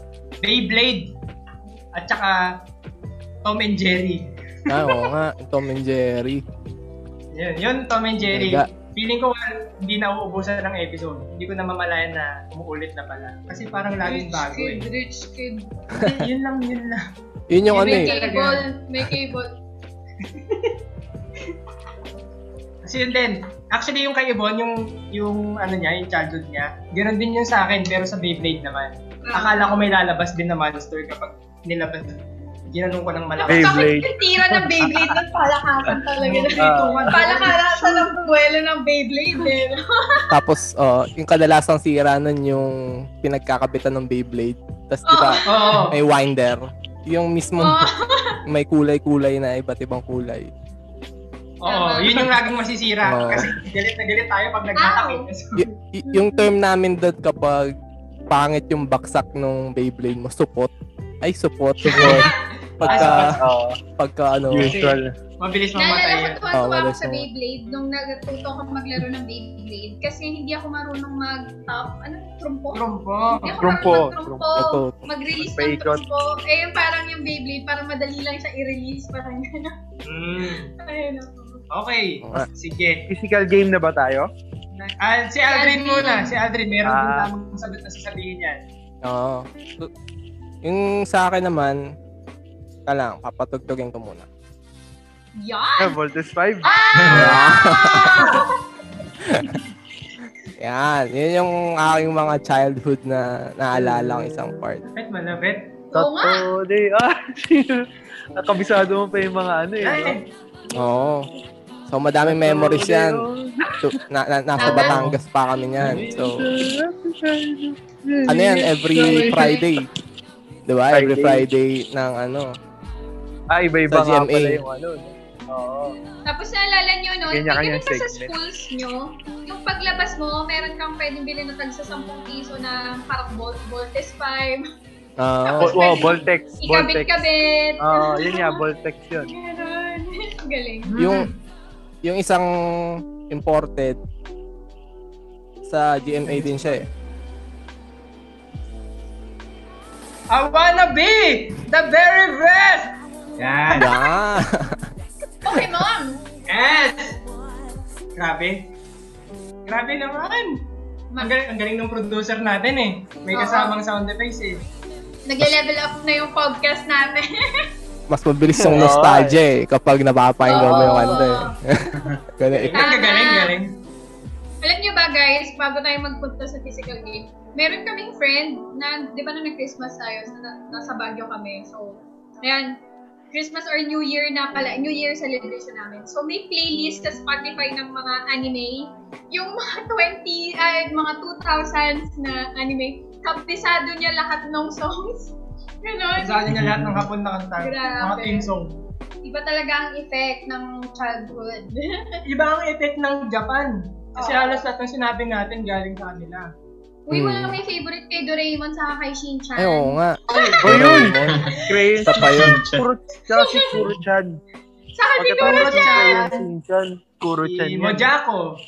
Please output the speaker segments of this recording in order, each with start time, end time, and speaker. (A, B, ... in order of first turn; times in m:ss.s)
0:00.4-0:01.1 A
0:01.9-0:02.4 A
0:03.4-0:05.0 A
0:04.7-0:06.4 B
0:07.3-0:14.9 A
0:08.3-0:08.7 B
0:14.0-0:15.7 C
0:15.9-0:17.0 A
0:17.5-0:18.1 B
0:17.7-0:19.5 C
0:17.7-0:18.6 A
0:20.2-0:20.7 A
0:22.8-0:33.9 A
0:29.2-0:29.8 C
0:33.4-0:40.3 C
0:33.5-0:35.2 D
0:36.2-0:38.0 A
0:36.6-0:37.2 D
0:40.3-0:47.9 B
0:45.1-0:45.9 C
0:45.5-0:46.0 A
0:47.6-0:48.4 C
0:48.5-0:50.5 B
0:51.6-0:55.7 A
0:51.6-0:52.4 C
0:53.0-0:53.5 B
0:54.8-0:55.3 C
0:55.6-0:57.7 B
0:56.0-0:56.5 C
0:58.3-1:00.7 B
1:01.2-1:03.4 B
1:01.9-1:02.3 A
1:02.0-1:02.3 C
1:02.8-1:03.4 A
1:02.8-1:03.8 D
1:04.0-1:04.7 B
1:04.5-1:04.8 E
1:04.5-1:05.1 D
1:04.7-1:06.4 A
1:05.8-1:19.8 C
1:06.5-1:07.3 B
1:12.7-1:13.8 A
1:13.5-1:14.4 D
1:14.5-1:15.1 B
1:15.4-1:16.0 D
1:20.0-1:20.7 A
1:20.7-1:21.6 C
1:21.7-1:23.0 A
1:22.2-1:22.5 B
1:23.1-1:24.3 D
1:24.8-1:28.6 A
1:25.4-1:26.3 C
1:26.8-1:27.3 D
1:29.0-1:29.9 B
1:30.6-1:31.8 B
1:32.8-1:34.3 B
1:35.4-1:36.0 C
1:35.8-1:37.2 D
1:36.6-1:38.6 C
1:37.0-1:37.4 E
1:37.1-1:38.3 B
1:38.0-1:38.4 A
1:39.2-1:39.6 B
1:40.6-1:44.9 B
1:43.7-1:44.5 D
1:45.0-1:45.7 A
1:45.9-1:46.5 C
1:45.9-1:50.2 D
1:49.8-1:50.2 A
1:50.7-1:51.3 B
1:51.9-1:53.2 B
1:52.2-1:54.0 D
1:53.8-1:56.5 B
1:54.6-1:55.0 C
1:54.7-1:55.2 D
1:55.8-1:59.6 D
1:58.3-1:59.9 B
2:00.7-2:02.5 B
2:00.9-2:01.5 D
2:03.5-2:06.0 D
2:03.9-2:04.6 B
2:06.2-2:14.6 C
2:07.2-2:08.3 D
2:15.2-2:16.1 B
2:15.4-2:18.6 C
2:15.6-2:17.1 D
2:17.8-2:19.3 D
2:19.2-2:21.0 C
2:20.9-2:21.3 A
2:21.0-2:21.3 B
2:22.0-2:24.0 B
2:25.6-2:26.9 B
2:26.2-2:26.8 D
2:30.3-2:32.9 A
2:33.4-2:33.9 E
2:33.7-2:34.8 B
2:35.4-2:36.2 C
2:36.5-2:37.2 A
2:38.2-2:38.7 A
2:39.7-2:40.6 A
2:41.2-2:44.6 A
2:43.3-2:43.8 C
2:45.2-2:47.6 C
2:48.1-2:52.8 B
2:48.5-2:49.4 D
2:50.4-2:51.5 C
2:50.6-2:50.9 D
2:52.0-2:52.2 E
2:52.7-2:53.7 A
2:52.7-2:53.5 C
2:54.6-3:02.8 C
3:03.3-3:16.4 C
3:16.2-3:18.8 A
3:16.5-3:17.0 E
3:17.6-3:18.4 C
3:19.2-3:22.2 C
3:22.2-3:26.5 A
3:24.2-3:24.6 C
3:27.1-3:30.6 C
3:27.1-3:27.6 B
3:29.6-3:32.6 B
3:30.3-3:34.4 D
3:30.7-3:32.8 E
3:33.3-3:33.7 C
3:34.9-3:36.4 C
3:35.2-3:38.1 D
3:35.4-3:36.4 A
3:37.4-3:38.6 A